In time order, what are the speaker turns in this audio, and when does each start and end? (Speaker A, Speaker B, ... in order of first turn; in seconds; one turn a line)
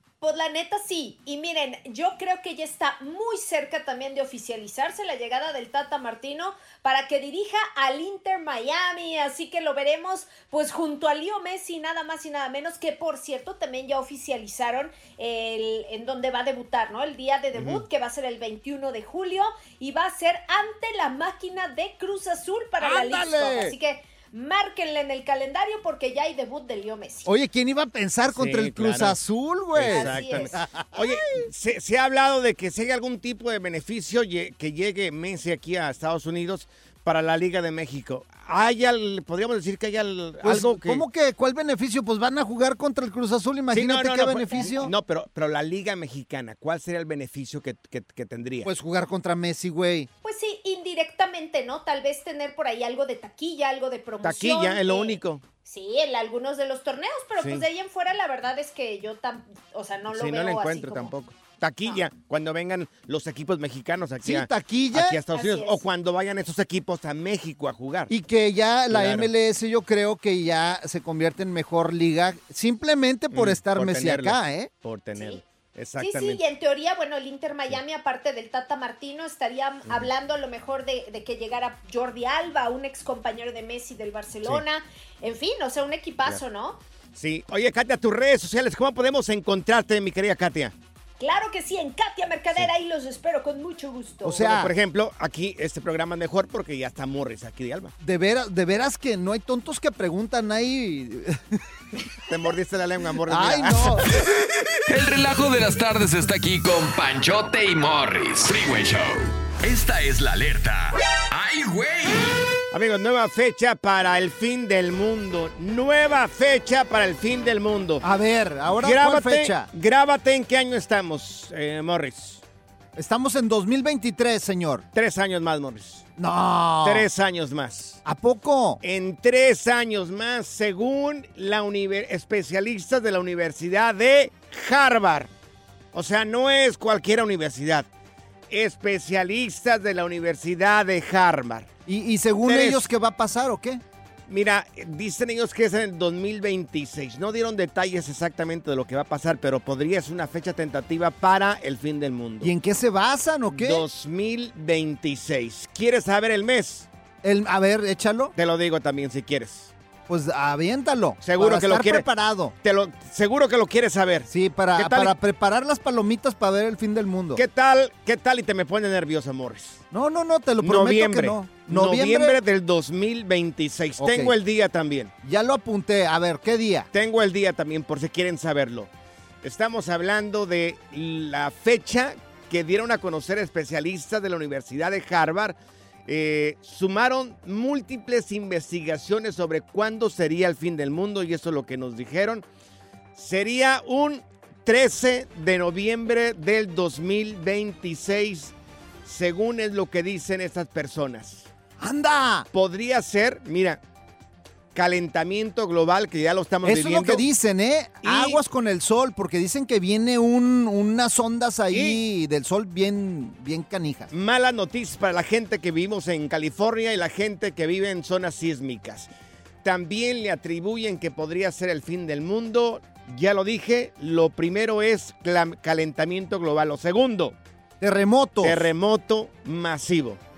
Speaker A: 0.2-27.3
Speaker B: 17.5-17.8
Speaker C: 22.8-23.8
Speaker C: 27.2-31.4
Speaker B: 28.3-29.2
Speaker B: 29.7-41.0
Speaker A: 29.8-30.5
Speaker C: 40.4-44.9
Speaker B: 43.7-48.7
Speaker C: 48.6-50.1
Speaker A: 50.2-61.1
Speaker B: 54.2-55.4
Speaker B: 57.4-57.6
Speaker B: 60.1-68.1
Speaker C: 64.2-65.2
Speaker A: 65.3-65.8
Speaker C: 68.1-74.7
Speaker B: 68.9-69.3
Speaker B: 73.3-76.4
Speaker A: 75.2-75.4
Speaker A: 76.0-86.8
Speaker B: 87.2-90.7
Speaker A: 91.2-94.4
Speaker C: 94.2-94.7
Speaker B: 94.4-97.9
Speaker C: 98.0-101.6
Speaker B: 102.3-104.2
Speaker C: 103.3-104.1
Speaker D: 104.9-112.4
Speaker B: 112.7-118.0
Speaker C: 118.0-119.7
Speaker B: 118.7-122.4
Speaker C: 123.0-124.8
Speaker B: 124.9-126.0
Speaker C: 126.2-127.1
Speaker B: 126.8-128.0
Speaker C: 128.0-128.8
Speaker B: 128.8-135.3
Speaker B: 135.9-137.9
Speaker B: 138.5-141.7
Speaker C: 141.9-143.8
Speaker B: 142.4-142.8
Speaker B: 144.3-152.5
Speaker C: 152.4-153.8
Speaker B: 153.5-156.9
Speaker C: 157.2-158.3
Speaker B: 158.3-159.7
Speaker C: 160.1-162.5
Speaker B: 161.2-162.0
Speaker B: 162.6-165.1
Speaker C: 164.3-167.4
Speaker B: 167.3-169.8
Speaker C: 169.9-172.4
Speaker B: 170.6-175.1
Speaker C: 174.0-174.3
Speaker C: 175.2-176.9
Speaker B: 176.9-178.9
Speaker B: 179.4-192.4
Speaker B: 193.2-198.5
Speaker B: 199.0-201.5
Speaker C: 201.8-202.5
Speaker B: 202.5-203.8
Speaker B: 204.8-207.2
Speaker C: 206.6-214.1
Speaker B: 208.0-208.4
Speaker B: 211.7-212.0
Speaker B: 214.1-219.1
Speaker B: 219.6-227.3
Speaker C: 227.8-228.7
Speaker B: 228.4-230.2